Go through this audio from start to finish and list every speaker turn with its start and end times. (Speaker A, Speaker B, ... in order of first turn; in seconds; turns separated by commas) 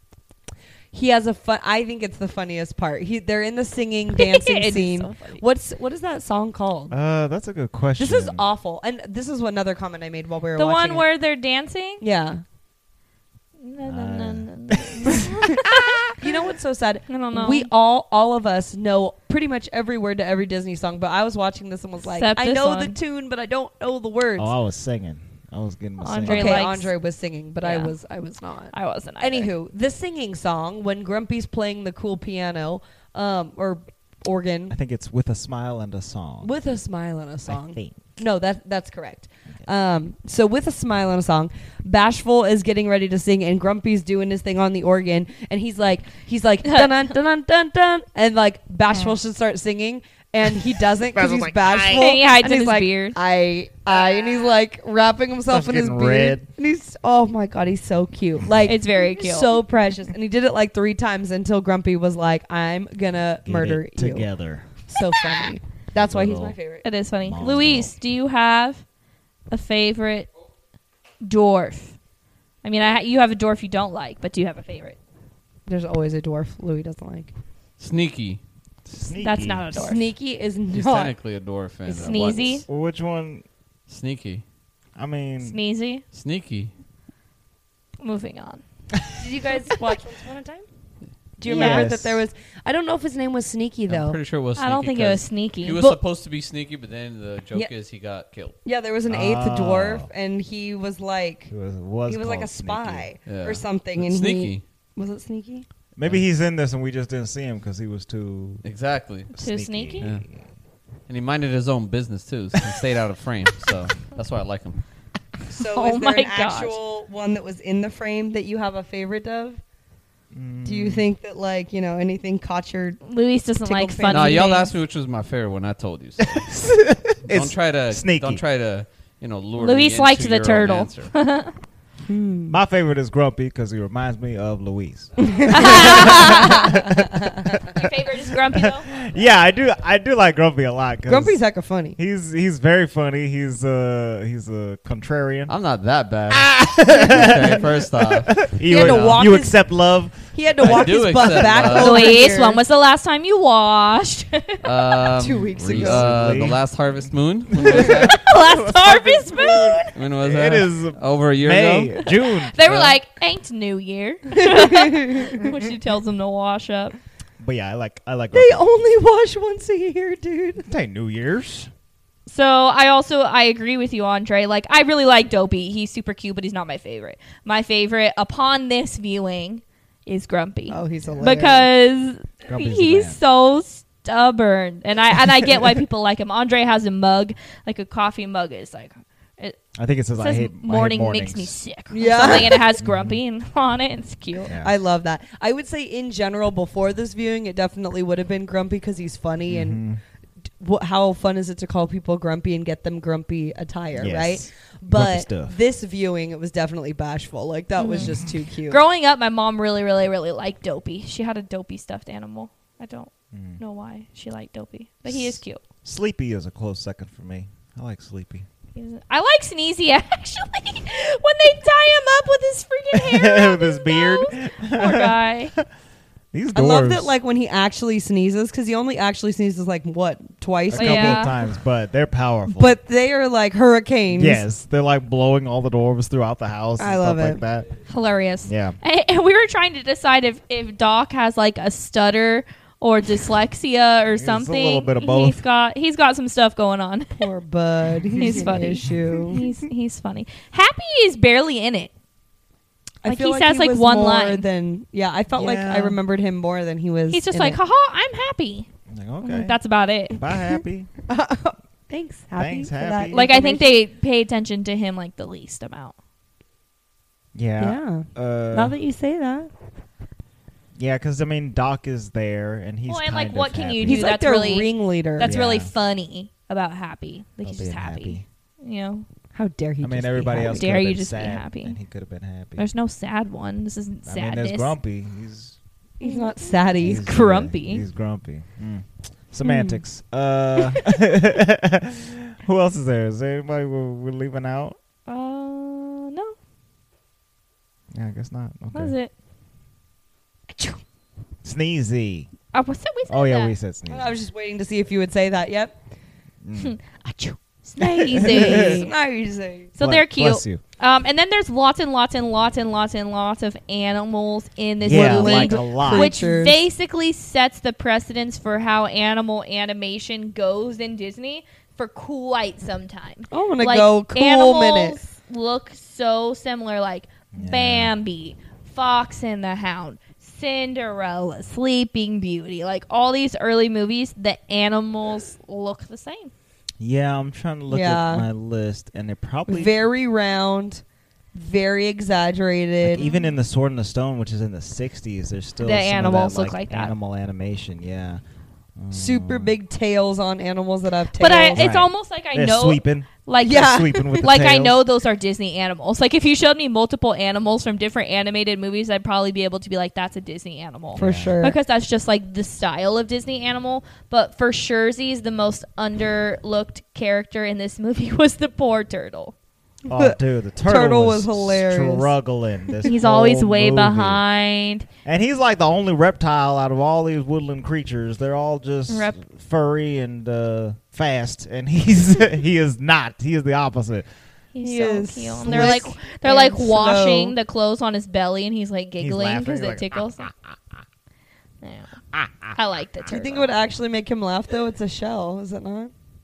Speaker A: 0.9-7.0, Speaker B: 4.2-5.4, Speaker C: 6.9-8.5, Speaker A: 8.0-11.1, Speaker B: 10.6-12.0, Speaker A: 12.0-12.4, Speaker B: 13.6-16.1, Speaker C: 13.8-16.1, Speaker A: 16.2-24.5, Speaker B: 17.1-17.7, Speaker B: 22.2-23.0, Speaker C: 24.4-26.7, Speaker B: 26.0-26.9, Speaker A: 26.3-34.8, Speaker B: 27.6-27.9, Speaker B: 28.7-29.5, Speaker C: 34.7-36.5, Speaker A: 36.4-64.3, Speaker C: 37.5-38.0, Speaker B: 46.6-47.1, Speaker C: 51.1-52.1, Speaker B: 51.9-53.2, Speaker C: 55.5-56.5, Speaker B: 58.7-59.6, Speaker C: 63.4-64.7, Speaker A: 64.9-66.8, Speaker C: 65.9-66.6, Speaker B: 66.8-68.8, Speaker C: 67.2-67.9, Speaker B: 69.5-70.3, Speaker B: 71.2-72.0, Speaker B: 72.6-75.0, Speaker A: 75.7-77.3, Speaker D: 77.8-78.4, Speaker C: 78.9-79.8, Speaker B: 79.1-80.1, Speaker A: 79.7-81.1, Speaker D: 80.7-82.6, Speaker A: 81.9-82.5, Speaker B: 82.0-82.7, Speaker C: 82.7-83.5, Speaker D: 83.9-84.4, Speaker C: 85.0-85.6, Speaker B: 85.4-86.0, Speaker D: 86.1-86.7, Speaker B: 88.0-88.6, Speaker A: 89.2-90.7, Speaker A: 91.4-94.2, Speaker C: 91.4-92.2, Speaker B: 91.5-91.9, Speaker D: 93.9-98.6, Speaker B: 94.6-96.0, Speaker A: 98.6-101.5, Speaker C: 99.1-100.1, Speaker C: 101.5-103.1, Speaker A: 102.1-105.7, Speaker D: 103.3-104.6, Speaker C: 106.0-108.6, Speaker D: 106.0-106.2, Speaker D: 108.6-109.3, Speaker C: 109.3-110.4, Speaker B: 109.4-110.1, Speaker D: 111.1-114.8, Speaker A: 115.5-119.6, Speaker B: 115.6-116.8, Speaker C: 120.3-121.1, Speaker A: 120.7-123.0, Speaker B: 123.0-124.8, Speaker A: 123.6-124.5, Speaker D: 124.1-126.5, Speaker C: 126.3-128.4, Speaker D: 127.3-131.1, Speaker B: 129.6-131.6, Speaker A: 132.1-132.6, Speaker C: 132.5-136.9, Speaker A: 135.2-137.6, Speaker B: 135.5-136.9, Speaker C: 137.4-141.4, Speaker B: 137.7-138.9, Speaker A: 141.1-142.0, Speaker C: 142.0-145.5, Speaker D: 145.5-149.2, Speaker C: 146.3-151.7, Speaker A: 148.7-149.6, Speaker A: 150.3-152.6, Speaker D: 150.6-152.2, Speaker B: 151.8-154.6, Speaker D: 154.6-158.3, Speaker A: 155.2-156.2, Speaker C: 155.6-156.6, Speaker C: 157.5-163.0, Speaker B: 157.7-159.9, Speaker D: 159.9-162.0, Speaker B: 162.0-167.0, Speaker A: 164.3-165.4, Speaker C: 167.4-168.6, Speaker A: 168.3-170.7, Speaker C: 170.7-171.7, Speaker B: 172.3-189.6, Speaker A: 180.7-181.7, Speaker C: 181.0-181.5, Speaker C: 182.5-183.2, Speaker C: 189.8-191.6, Speaker B: 190.2-194.6, Speaker A: 191.9-192.7, Speaker C: 192.2-193.2, Speaker C: 194.4-194.7, Speaker A: 194.6-199.8, Speaker C: 199.5-200.0, Speaker A: 200.6-208.8, Speaker C: 204.0-205.5, Speaker B: 207.8-215.6, Speaker C: 208.0-208.3, Speaker C: 213.3-213.6, Speaker C: 215.1-218.5, Speaker B: 218.8-225.6, Speaker C: 222.9-225.7, Speaker C: 226.3-227.1, Speaker A: 226.5-231.3, Speaker C: 230.7-232.8, Speaker B: 230.7-231.4, Speaker A: 232.5-234.4, Speaker C: 234.1-237.7, Speaker A: 236.8-237.4, Speaker B: 237.9-247.3, Speaker C: 238.4-238.8, Speaker C: 244.2-245.4, Speaker A: 247.2-249.4, Speaker B: 248.2-251.9, Speaker C: 248.9-249.4, Speaker A: 253.0-257.6, Speaker B: 253.1-254.4, Speaker C: 255.3-256.0, Speaker B: 257.1-258.7, Speaker C: 258.9-259.6, Speaker B: 259.2-260.2, Speaker C: 260.1-260.9, Speaker A: 261.1-263.8, Speaker C: 262.4-263.3, Speaker B: 263.1-265.9, Speaker C: 267.4-268.8, Speaker A: 267.6-269.5, Speaker C: 270.8-274.2, Speaker B: 272.9-279.1, Speaker A: 273.8-275.3, Speaker C: 275.2-275.7, Speaker C: 277.4-278.2, Speaker A: 279.3-280.7, Speaker C: 279.8-282.6, Speaker B: 280.4-281.8, Speaker B: 282.6-284.7, Speaker C: 284.1-285.6, Speaker A: 286.0-287.0, Speaker B: 286.0-287.8, Speaker C: 286.8-294.8, Speaker B: 289.5-289.8, Speaker B: 295.1-296.4, Speaker C: 297.9-298.9, Speaker B: 298.7-299.1, Speaker C: 301.4-302.3, Speaker B: 302.5-303.5, Speaker C: 303.1-304.1, Speaker A: 303.9-305.8, Speaker C: 306.4-306.7, Speaker B: 306.6-308.9, Speaker C: 307.8-308.8, Speaker A: 308.2-309.7, Speaker B: 309.8-336.3, Speaker C: 309.8-310.6, Speaker C: 314.8-316.2, Speaker A: 314.9-316.6, Speaker A: 323.3-325.0, Speaker C: 327.4-327.9, Speaker C: 336.8-339.7, Speaker A: 337.7-338.3, Speaker A: 339.5-340.8, Speaker A: 341.3-343.0, Speaker C: 342.8-348.2, Speaker B: 342.9-343.3, Speaker B: 345.6-346.9, Speaker C: 348.8-349.5, Speaker A: 348.9-351.6, Speaker B: 351.2-369.3, Speaker C: 351.6-354.8, Speaker A: 353.4-354.3, Speaker C: 360.9-361.4, Speaker A: 361.0-361.6, Speaker C: 369.9-374.2, Speaker A: 369.9-372.1, Speaker B: 372.9-374.9, Speaker C: 375.1-384.1, Speaker B: 378.9-379.2, Speaker B: 384.6-390.3, Speaker A: 384.6-387.3, Speaker C: 385.5-385.8, Speaker C: 389.0-390.5, Speaker B: 391.6-391.9, Speaker C: 392.1-392.6, Speaker B: 392.5-393.5, Speaker A: 393.1-395.9